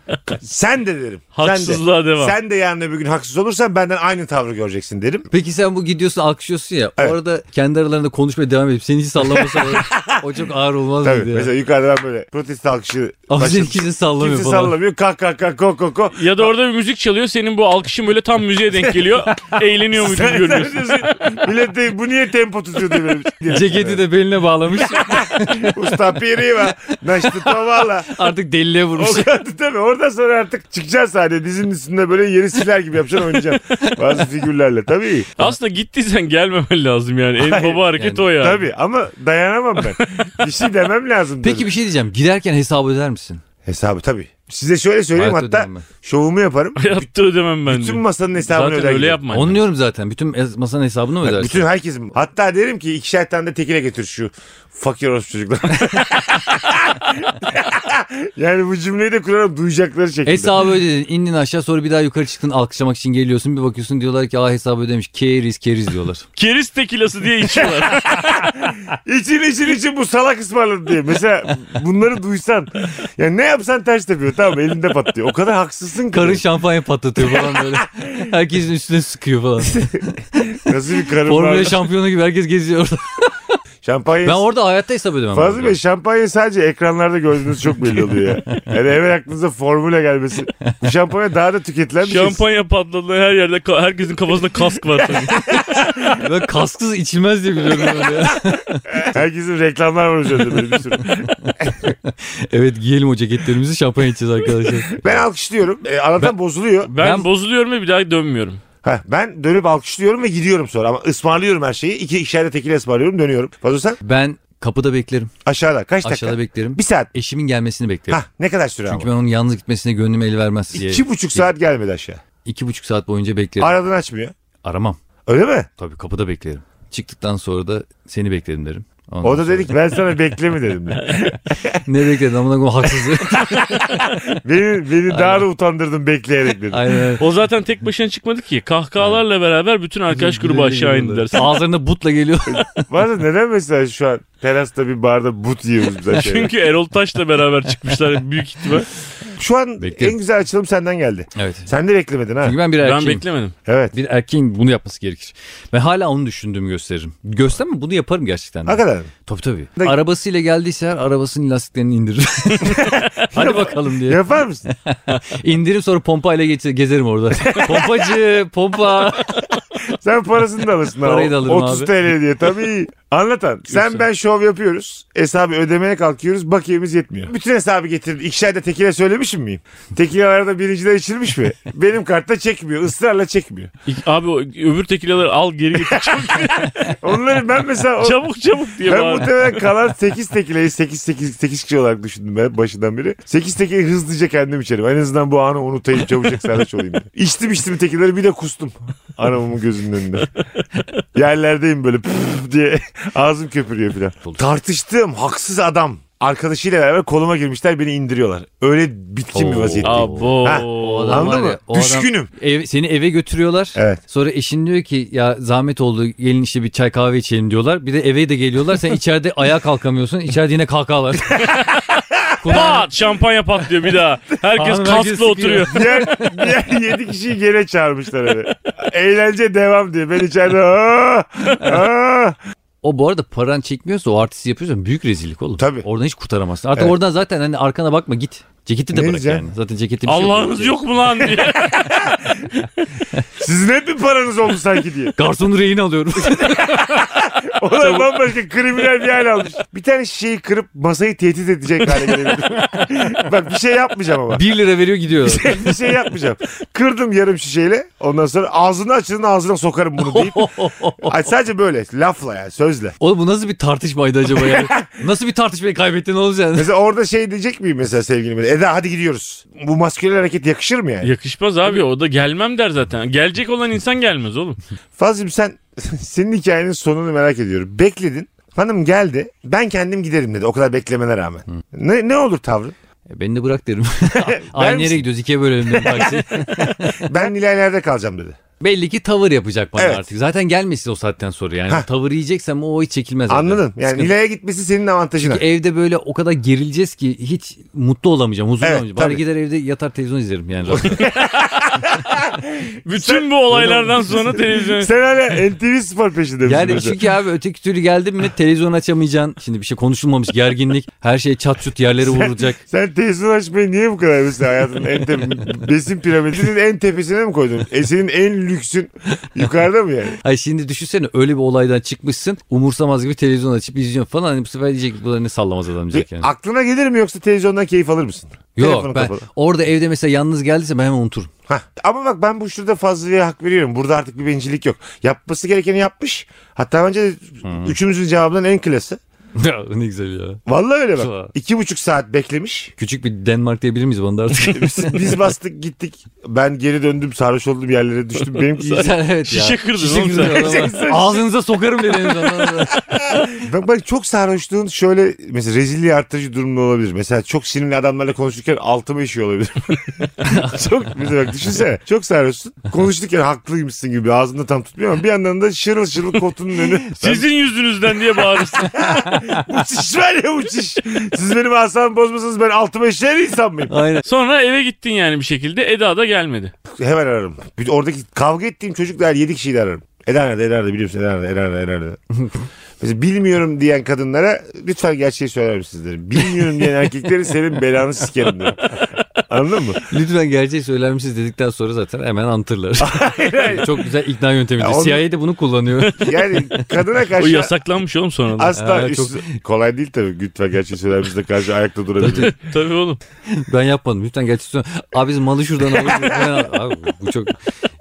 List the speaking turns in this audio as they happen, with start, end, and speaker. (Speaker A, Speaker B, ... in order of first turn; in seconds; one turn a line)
Speaker A: 0.3-5.3
Speaker B: 1.4-2.4
Speaker C: 5.3-11.5
Speaker A: 9.4-10.2
Speaker A: 11.0-16.5
Speaker C: 13.3-14.8
Speaker B: 16.1-21.1
Speaker A: 19.9-24.0
Speaker C: 23.5-25.8
Speaker A: 24.8-28.2
Speaker C: 26.9-29.3
Speaker A: 29.0-35.4
Speaker B: 35.4-38.6
Speaker A: 37.4-41.7
Speaker C: 38.0-38.3
Speaker C: 41.4-43.4
Speaker A: 43.6-47.1
Speaker C: 45.1-45.9
Speaker B: 46.8-49.6
Speaker A: 47.7-49.2
Speaker C: 49.3-51.7
Speaker A: 51.2-60.7
Speaker C: 60.3-66.2
Speaker B: 66.4-68.2
Speaker A: 67.5-76.4
Speaker C: 76.1-83.3
Speaker A: 77.2-78.3
Speaker A: 79.7-80.0
Speaker A: 80.6-81.8
Speaker A: 83.8-84.5
Speaker C: 84.2-85.8
Speaker A: 85.3-92.4
Speaker B: 92.0-95.8
Speaker A: 95.5-96.2
Speaker C: 96.0-99.0
Speaker A: 99.0-101.9
Speaker C: 101.0-105.2
Speaker A: 104.9-106.9
Speaker B: 106.8-108.6
Speaker C: 107.0-107.3
Speaker A: 108.8-114.0
Speaker C: 114.0-115.3
Speaker A: 115.5-117.1
Speaker C: 116.0-118.2
Speaker A: 118.1-119.1
Speaker C: 118.9-121.5
Speaker A: 120.7-122.2
Speaker C: 122.5-123.8
Speaker A: 123.6-124.3
Speaker C: 124.6-125.0
Speaker A: 125.3-125.7
Speaker C: 125.8-129.8
Speaker A: 129.2-131.8
Speaker C: 131.8-134.0
Speaker A: 133.3-136.9
Speaker C: 135.1-135.4
Speaker C: 136.7-137.2
Speaker B: 137.2-141.5
Speaker C: 140.1-142.9
Speaker A: 142.5-146.5
Speaker B: 146.2-148.9
Speaker A: 149.3-152.6
Speaker C: 149.8-150.2
Speaker C: 151.3-151.7
Speaker C: 152.4-153.3
Speaker B: 152.8-153.5
Speaker A: 153.7-153.9
Speaker C: 153.9-169.5
Speaker A: 158.7-159.1
Speaker A: 162.6-164.7
Speaker A: 167.4-168.2
Speaker A: 169.8-183.7
Speaker C: 171.0-171.9
Speaker B: 183.9-186.9
Speaker A: 185.8-188.2
Speaker B: 188.0-189.4
Speaker A: 188.8-200.3
Speaker A: 201.2-212.3
Speaker C: 209.3-221.5
Speaker B: 209.8-211.3
Speaker A: 221.5-222.7
Speaker C: 222.4-222.9
Speaker B: 222.5-225.9
Speaker C: 224.6-226.4
Speaker A: 225.7-232.4
Speaker C: 232.8-240.8
Speaker A: 235.6-235.9
Speaker A: 238.9-239.4
Speaker B: 240.1-242.1
Speaker A: 241.3-242.5
Speaker A: 243.4-245.2
Speaker C: 245.2-247.0
Speaker A: 246.2-254.4
Speaker B: 247.8-248.1
Speaker C: 254.3-255.8
Speaker A: 255.2-260.5
Speaker C: 260.0-261.2
Speaker A: 261.0-263.0
Speaker C: 263.0-266.7
Speaker A: 264.4-264.8
Speaker A: 266.6-271.1
Speaker B: 271.0-274.6
Speaker A: 275.0-282.8
Speaker C: 283.1-287.2
Speaker A: 284.2-285.1
Speaker A: 285.6-288.4
Speaker C: 288.6-294.1
Speaker A: 289.8-290.1
Speaker A: 293.3-295.4
Speaker C: 295.2-301.1
Speaker A: 298.6-299.2
Speaker A: 300.7-307.0
Speaker B: 302.9-304.9
Speaker C: 306.4-312.6
Speaker A: 312.0-320.2
Speaker C: 320.2-326.3
Speaker A: 325.9-329.3
Speaker C: 328.6-331.3
Speaker A: 331.5-339.0
Speaker C: 337.4-337.8
Speaker C: 339.4-340.4
Speaker A: 340.5-342.7
Speaker C: 341.0-341.3
Speaker C: 342.8-345.1
Speaker A: 344.5-348.9
Speaker C: 348.6-352.9
Speaker B: 348.6-350.7
Speaker A: 350.2-351.3
Speaker A: 352.4-367.3
Speaker C: 360.2-360.6
Speaker B: 367.0-368.8
Speaker A: 368.0-373.7
Speaker C: 369.0-369.4
Speaker C: 373.7-374.1
Speaker B: 374.1-376.5
Speaker A: 376.7-382.0
Speaker A: 382.8-388.7
Speaker A: 389.3-389.8
Speaker C: 389.9-396.7
Speaker A: 392.8-393.9
Speaker A: 394.6-395.1
Speaker A: 396.0-397.5
Speaker B: 397.2-398.6
Speaker A: 398.4-402.3
Speaker C: 398.6-399.4
Speaker C: 402.0-402.3
Speaker B: 402.0-403.0
Speaker C: 403.3-407.4
Speaker A: 405.8-406.4